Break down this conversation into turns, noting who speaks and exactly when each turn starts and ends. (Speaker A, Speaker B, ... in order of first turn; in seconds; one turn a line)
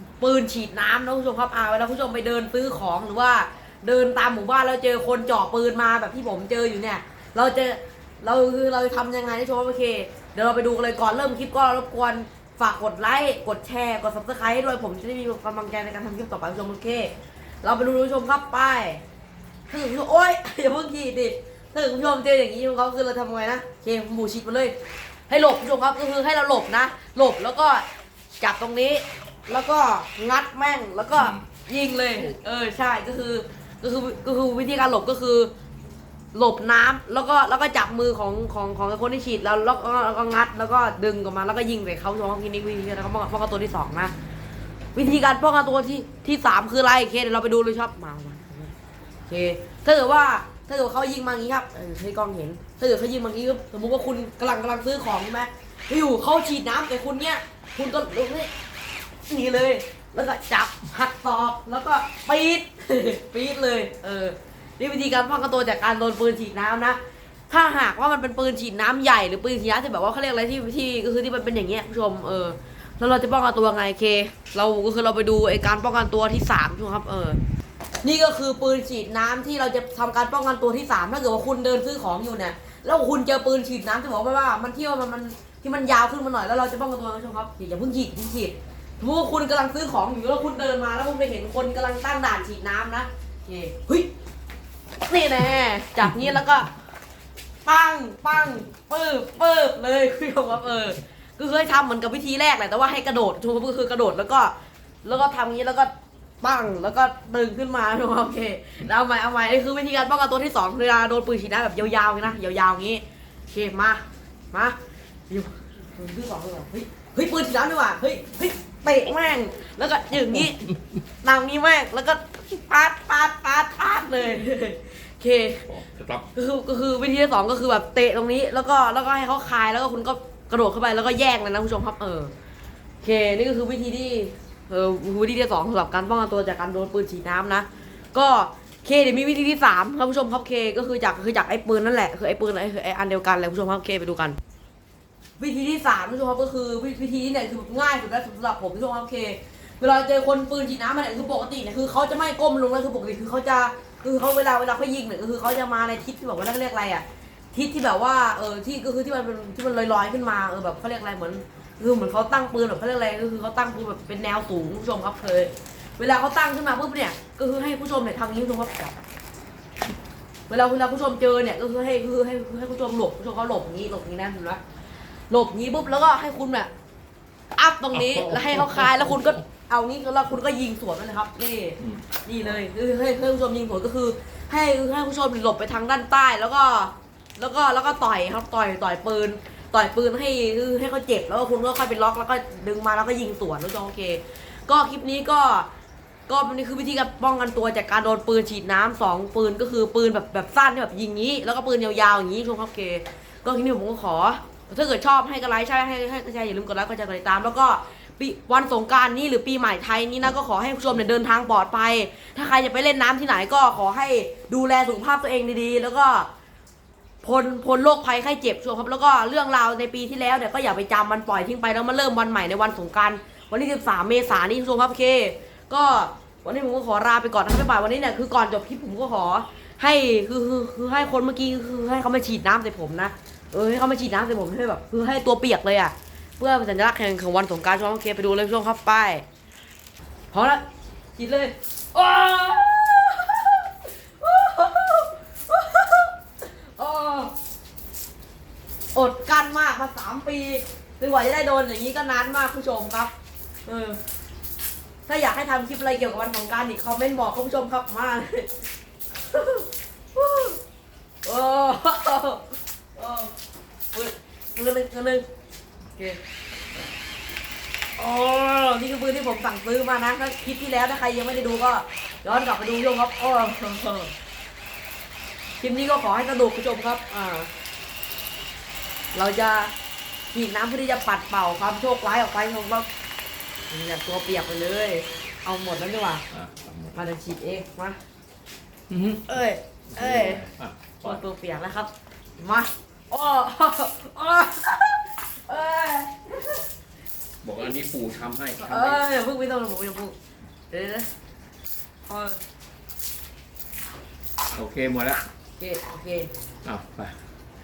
Speaker A: 0.2-19.0
Speaker A: 19.7-24.8
Speaker A: 25.3-27.9
Speaker A: 28.4-35.5
Speaker B: 31.2-31.4
Speaker A: 36.3-44.1
Speaker A: 45.0-48.8
Speaker A: 49.3-58.5
Speaker A: 59.3-67.0
Speaker A: 67.5-77.4
Speaker A: 78.0-94.1
Speaker A: 95.0-96.7
Speaker A: 97.7-114.8
Speaker A: 115.3-120.7
Speaker A: 121.2-125.7
Speaker B: 125.7-126.3
Speaker A: 126.3-132.3
Speaker A: 133.0-144.4
Speaker A: 145.4-168.9
Speaker A: 170.5-174.6
Speaker A: 175.3-176.7
Speaker A: 177.6-195.7
Speaker B: 178.1-179.0
Speaker A: 196.3-216.3
Speaker A: 217.2-239.2
Speaker A: 240.3-240.6
Speaker A: 241.2-247.3
Speaker A: 248.9-253.1
Speaker A: 253.7-254.0
Speaker A: 255.1-258.5
Speaker A: 259.2-260.6
Speaker A: 261.2-263.3
Speaker A: 263.9-265.2
Speaker A: 268.0-274.1
Speaker A: 275.6-277.5
Speaker A: 279.1-279.7
Speaker A: 280.3-282.9
Speaker A: 283.7-286.2
Speaker B: 286.3-287.0
Speaker A: 286.9-288.0
Speaker B: 288.9-289.4
Speaker A: 289.3-290.4
Speaker B: 289.9-291.2
Speaker A: 291.0-296.6
Speaker B: 297.4-299.0
Speaker A: 298.6-300.1
Speaker A: 300.7-301.1
Speaker A: 302.1-302.4
Speaker B: 304.5-305.2
Speaker A: 305.6-306.3
Speaker B: 306.6-307.1